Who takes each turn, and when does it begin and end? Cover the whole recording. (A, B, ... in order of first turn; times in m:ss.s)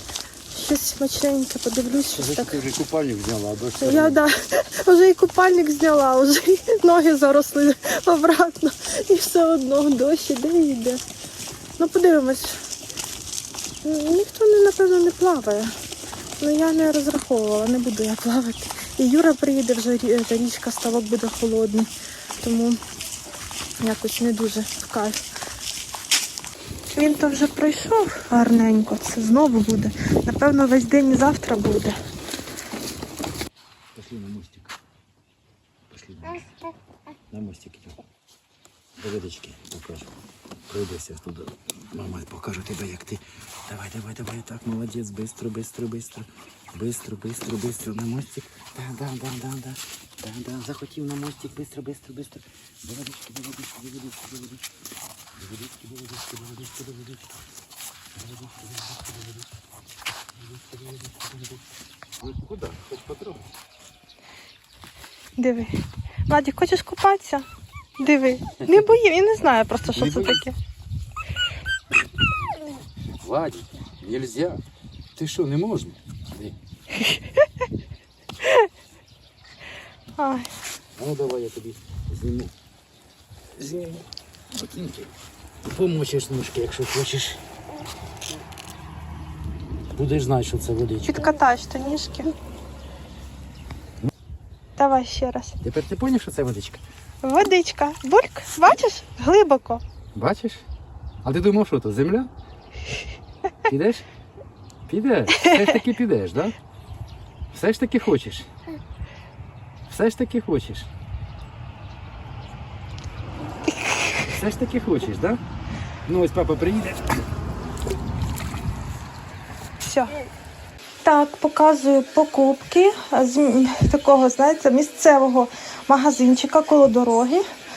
0:00.5-0:02.6 A
0:02.2-0:04.2 B
0:03.8-0:11.0 A
0:11.8-0:12.6 A
0:13.8-0:15.7 A
0:16.4-0:22.8 A
0:23.8-0:25.2 A
0:26.9-0:32.0 A
0:33.9-0:34.7 B
0:35.9-0:36.4 B
0:37.3-0:38.0 B
0:39.0-0:40.1 B
0:40.7-0:54.6 B
0:55.4-0:57.2 B
0:58.2-0:59.3 B
1:00.5-1:01.4 B
1:02.2-1:03.5 B
1:05.4-1:07.5 A
1:08.0-1:10.5 A
1:09.9-1:10.4 B
1:13.2-1:14.6 B
1:15.2-1:16.5 B
1:20.2-1:20.5 A
1:21.0-1:22.5 B
1:23.6-1:25.1 B
1:25.6-1:27.4 B
1:29.9-1:31.1 B
1:31.0-1:32.3 A
1:34.8-1:35.6 A
1:35.6-1:36.8 B
1:37.2-1:39.8 A
1:40.1-1:40.6 B
1:41.2-1:42.3 B
1:43.7-1:44.0 B
1:44.9-1:46.6 B
1:47.5-1:48.5 B
1:49.9-1:50.9 B
1:54.3-1:55.4 B
1:56.0-1:57.0 B
1:59.8-2:00.2 A
2:01.0-2:07.4 A